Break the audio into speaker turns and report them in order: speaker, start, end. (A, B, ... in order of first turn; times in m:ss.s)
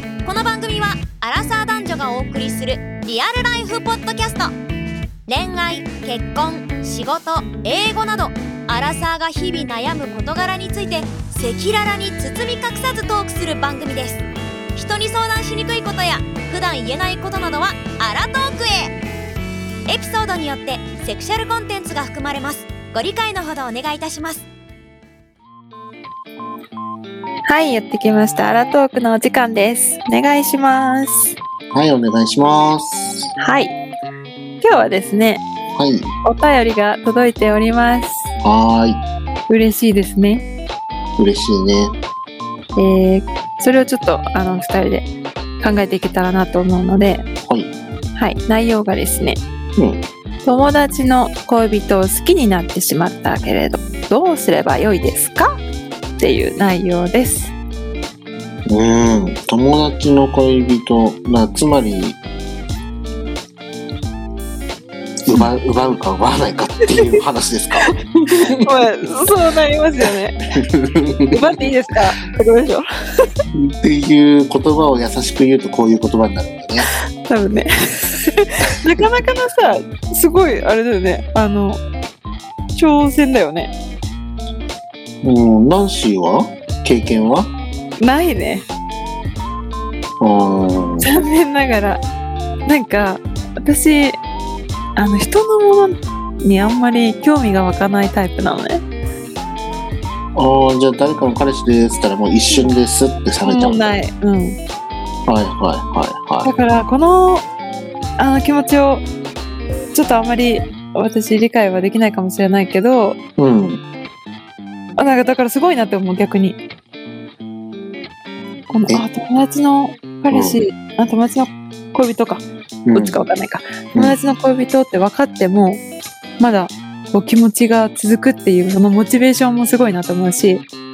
0:00.2-0:04.5 A
0:05.3-0:14.2 A
0:14.7-0:18.9 A
0:19.9-0:24.4 A
0:27.4-0:31.3 B
0:31.7-0:33.3 C
0:33.4-0:33.7 B
0:34.6-0:35.4 B
0:35.7-0:36.1 C
0:36.2-0:38.3 B
0:38.4-0:39.0 C
0:39.5-0:40.4 B
0:41.2-0:41.9 C
0:42.8-0:45.1 B
0:45.6-0:47.2 B
0:47.4-0:47.7 C
0:48.2-0:49.4 B
0:49.8-0:50.0 C
0:50.4-0:55.5 B
0:56.2-0:57.5 B
0:58.7-1:02.2 C
1:05.2-1:08.7 C
1:07.9-1:10.4 B
1:10.6-1:11.6 C
1:11.3-1:13.3 B
1:13.5-1:16.9 C
1:16.8-1:21.8 B
1:22.7-1:23.7 B
1:25.2-1:27.5 C
1:28.0-1:28.6 B
1:30.2-1:31.2 C
1:31.0-1:32.0 B
1:32.6-1:34.2 B
1:35.0-1:38.8 B
1:40.3-1:44.0 C
1:43.4-1:44.6 B
1:45.3-1:46.5 C
1:46.4-1:47.4 B
1:48.2-1:49.1 B
1:49.9-1:53.2 B
1:53.4-1:53.8 C
1:55.0-1:56.6 B
1:58.7-2:05.8 B
2:00.3-2:00.6 C
2:02.8-2:03.2 C
2:06.4-2:10.6 B